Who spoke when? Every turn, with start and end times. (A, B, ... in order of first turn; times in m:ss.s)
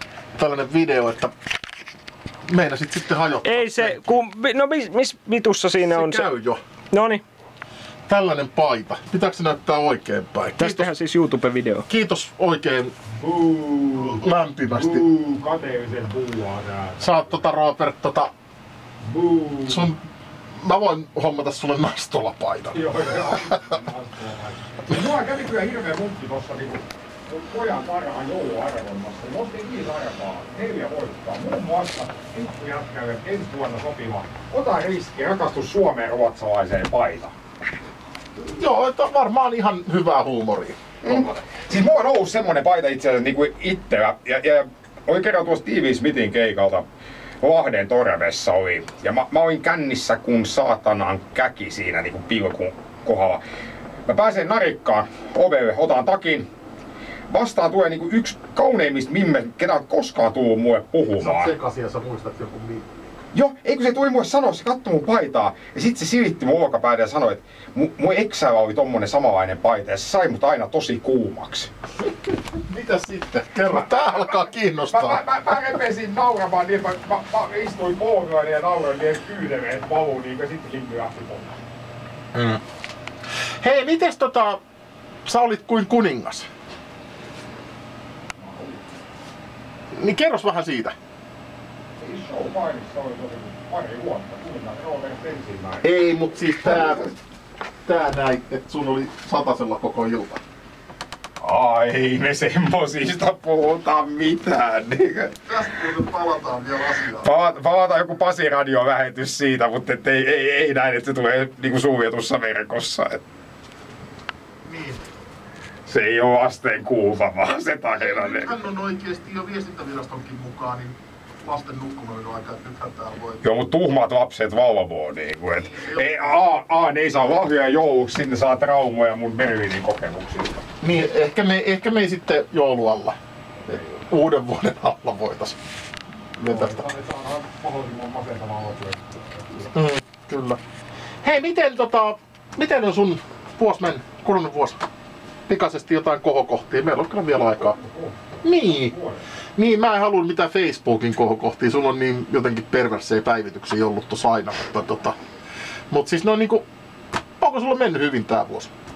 0:00.4-0:01.3 A
0:02.5-0:04.2 A
0:03.4-0:06.2 B
0:05.8-0:06.6 A
0:06.9-0:07.2 B
0:08.1-0:10.9 A
0:10.6-0:11.8 B
0:11.9-0:12.9 A
0:13.2-0:17.5 C
0:14.1-0:15.0 A
0:17.0-0:18.3 A
0:19.0-0:19.9 C
0:19.7-0:20.0 A
0:20.5-0:23.7 A
0:22.7-0:37.3 C
0:38.4-0:41.3 A
0:41.0-0:46.8 C
0:47.4-0:53.4 C
0:54.1-0:56.5 C
0:57.3-1:01.5 C
1:01.2-1:02.9 A
1:03.3-1:11.7 C
1:12.7-1:15.2 A
1:13.7-1:21.6 C
1:22.3-1:22.6 A
1:23.6-1:24.6 A
1:25.2-1:26.5 A
1:28.4-1:28.8 C
1:29.9-1:31.0 A
1:32.0-1:35.9 C
1:35.8-1:37.2 A
1:36.6-1:37.1 C
1:37.8-1:40.4 A
1:41.4-1:45.9 C
1:45.5-1:47.3 A
1:47.1-1:53.2 C
1:54.7-1:55.0 A
1:55.9-1:58.6 C
1:57.9-2:03.4 A
2:03.4-2:11.1 C
2:05.5-2:06.4 A
2:10.8-2:13.2 A
2:13.7-2:15.6 A
2:16.4-2:16.8 A
2:16.4-2:19.7 C
2:19.7-2:20.6 A
2:21.2-2:24.8 A
2:25.5-2:27.8 A
2:27.4-2:29.2 C
2:28.4-2:28.9 A
2:29.6-2:35.2 A
2:35.9-2:36.6 A
2:37.4-2:38.7 A